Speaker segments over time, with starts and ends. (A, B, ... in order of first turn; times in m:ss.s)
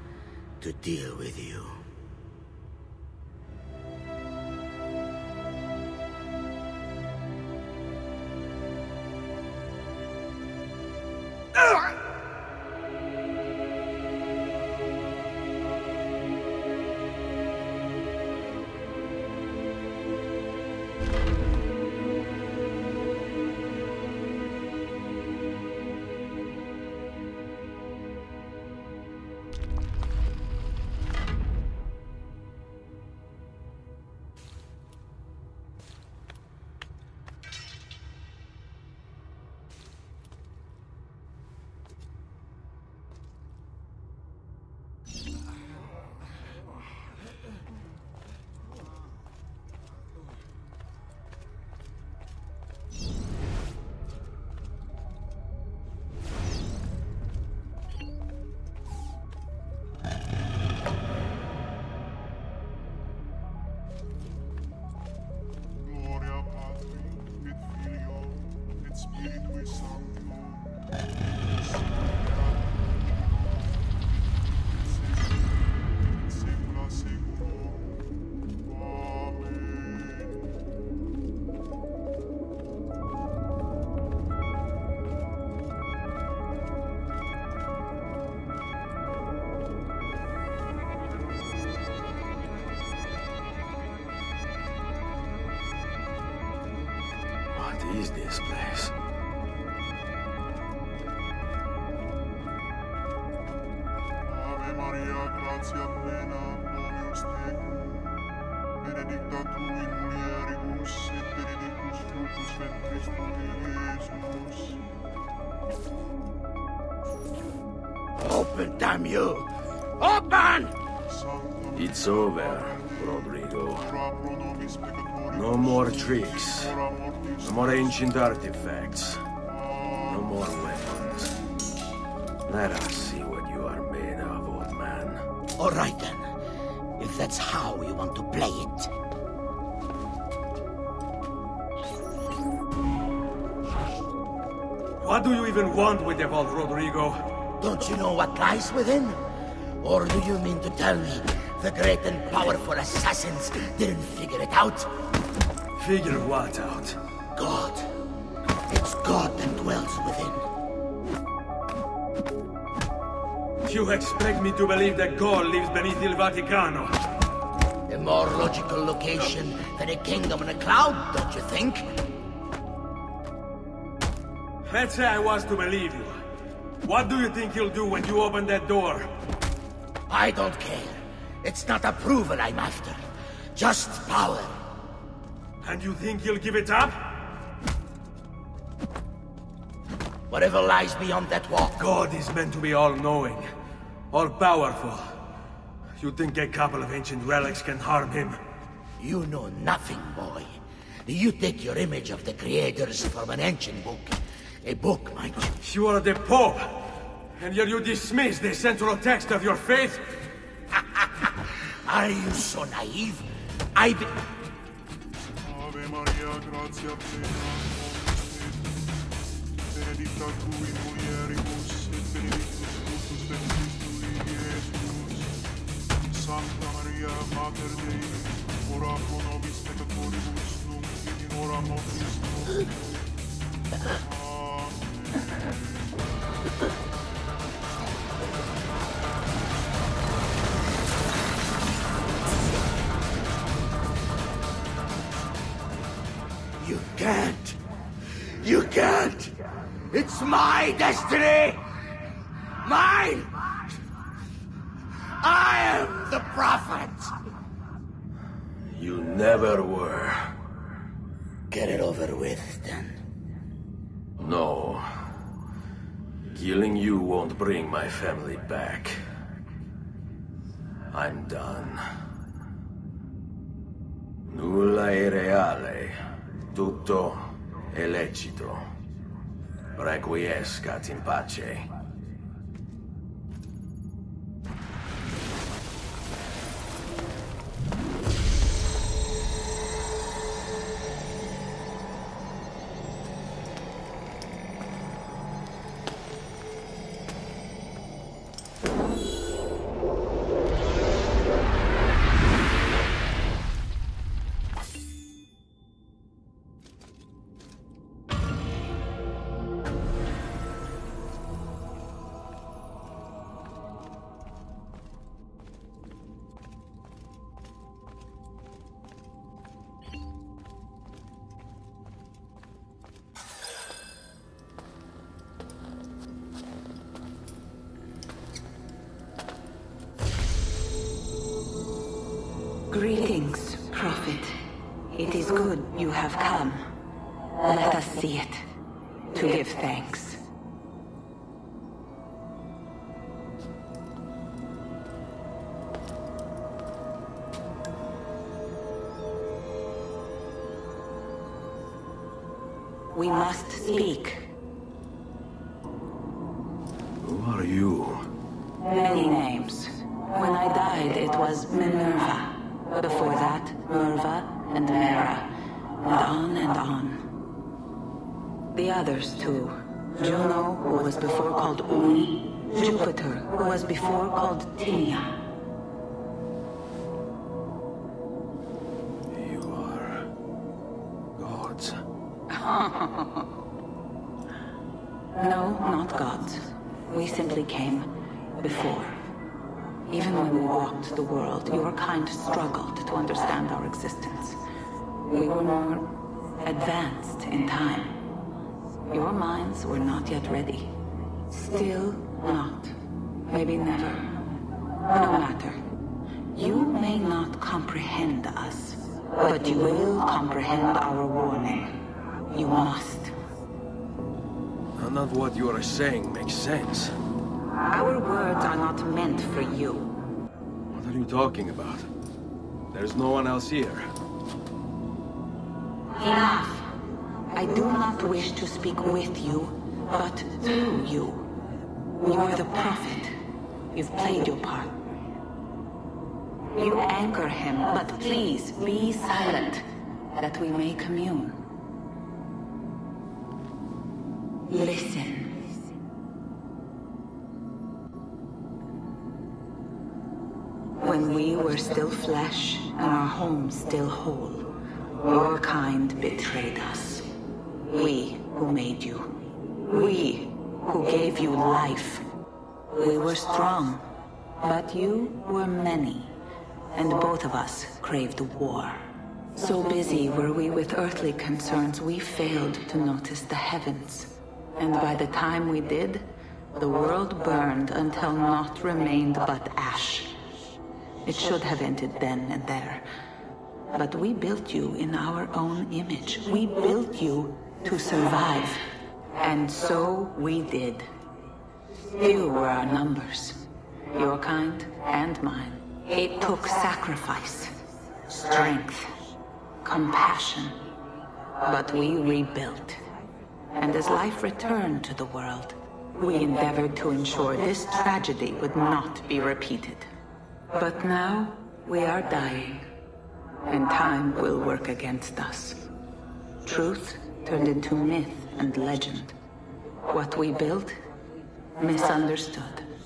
0:00.6-0:01.8 A
1:05.8-1:10.6 B
1:11.6-1:12.7 B
1:15.0-1:15.3 B
1:16.3-1:17.9 B
1:18.7-1:20.4 B
1:37.5-1:38.9 C
1:44.3-1:48.0 B
1:48.8-1:54.8 B
1:58.2-2:00.7 A
2:01.1-2:02.8 B
2:01.7-2:03.9 C
2:03.9-2:06.0 B
2:05.3-2:06.8 C
2:06.5-2:07.4 B
2:07.4-2:09.2 C
2:09.4-2:10.0 B
2:10.0-2:11.3 C
2:12.4-2:15.2 C
2:15.6-2:16.3 A
2:17.0-2:18.9 A
2:25.0-2:27.2 C
2:27.6-2:29.2 A
2:29.8-2:34.9 A
2:35.8-2:37.0 C
2:37.3-2:37.9 A
2:38.7-2:40.4 A
2:43.6-2:47.0 C
2:47.9-2:51.8 A
2:54.6-2:56.2 C
2:56.8-2:59.1 C
3:00.1-3:03.0 A
3:03.5-3:04.6 A
3:05.6-3:07.2 C
3:10.3-3:11.9 A
3:11.8-3:13.4 C
3:14.1-3:15.0 C
3:16.0-3:18.4 C
3:19.0-3:25.5 A
3:25.6-3:30.2 C
3:31.8-3:34.1 A
3:35.4-3:38.7 B
3:39.7-3:45.3 B
3:46.0-3:52.8 B
3:54.0-3:55.2 B
4:06.6-4:09.3 A
4:09.9-4:11.6 A
4:12.6-4:13.6 A
4:15.2-4:17.1 A
4:18.6-4:20.3 C
4:21.5-4:23.0 A
4:24.2-4:24.8 C
4:26.3-4:29.0 C
4:30.9-4:31.8 C
4:34.3-4:35.9 C
4:36.5-4:38.7 C
4:39.7-4:41.7 C
5:32.7-5:34.4 D
5:34.9-5:38.4 D
5:39.1-5:40.2 D
5:52.9-5:54.3 D
5:57.0-5:58.1 C
5:58.6-6:07.1 D
6:08.5-6:15.2 D
6:19.1-6:20.0 C
6:21.2-6:21.8 C
6:22.3-6:23.3 D
6:25.1-6:29.0 D
6:29.9-6:34.4 D
6:35.0-6:38.0 D
6:38.8-6:45.6 D
6:46.3-6:53.1 D
6:54.8-6:57.0 C
6:57.5-6:59.9 D
7:00.7-7:01.9 C
7:02.7-7:03.9 C
7:05.9-7:06.7 D
7:07.3-7:11.3 D
7:11.9-7:13.2 D
7:13.7-7:14.8 D
7:16.5-7:21.4 D
7:24.4-7:25.5 D
7:30.8-7:37.1 D
7:37.7-7:42.0 D
7:42.7-7:43.8 D
7:44.4-7:46.2 D
7:46.7-8:00.2 D
8:01.0-8:02.8 D
8:03.7-8:08.6 D
8:09.2-8:10.9 D
8:11.8-8:18.9 D
8:19.6-8:20.7 D
8:21.4-8:22.8 D
8:23.5-8:29.9 D
8:30.5-8:32.7 D
8:33.4-8:35.7 D
8:36.4-8:39.1 D
8:39.8-8:40.8 D
8:41.6-8:42.7 D